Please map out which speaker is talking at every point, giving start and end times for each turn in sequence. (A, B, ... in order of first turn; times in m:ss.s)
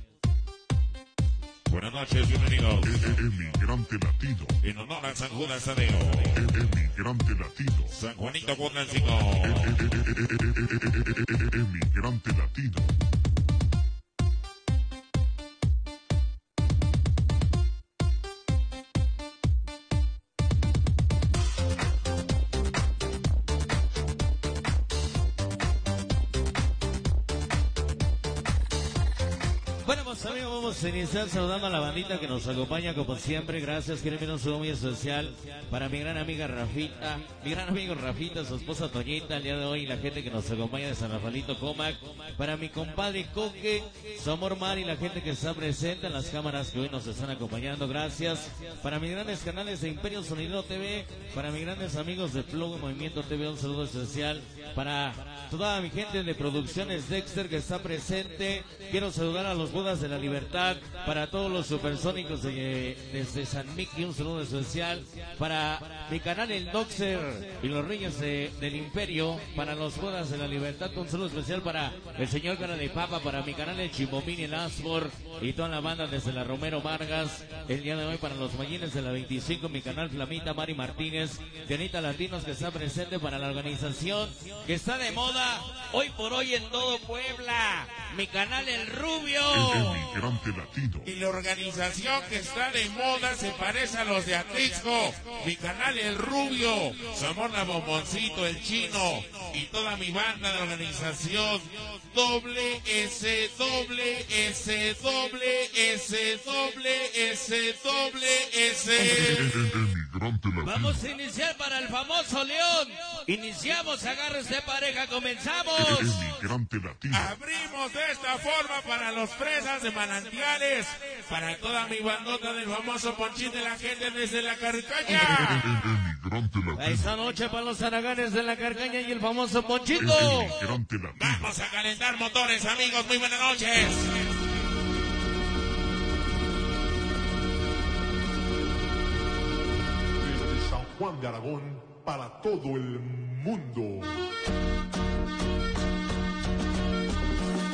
0:01.7-0:03.2 A
0:02.8-0:04.6 B
0:04.6-0:06.5 A
0:06.3-0:07.9 B
0:07.9-0:10.0 A
0:09.4-0:12.9 B
0:29.8-1:30.1 C
1:29.5-1:31.1 B
1:31.0-1:49.5 A
1:49.0-1:51.0 B
1:50.6-1:56.2 C
1:55.8-1:57.3 B
1:57.1-2:05.7 A
2:05.1-2:07.1 B
2:06.8-2:10.6 C
2:10.0-2:11.5 B
2:11.2-2:14.2 A
2:20.2-2:24.1 D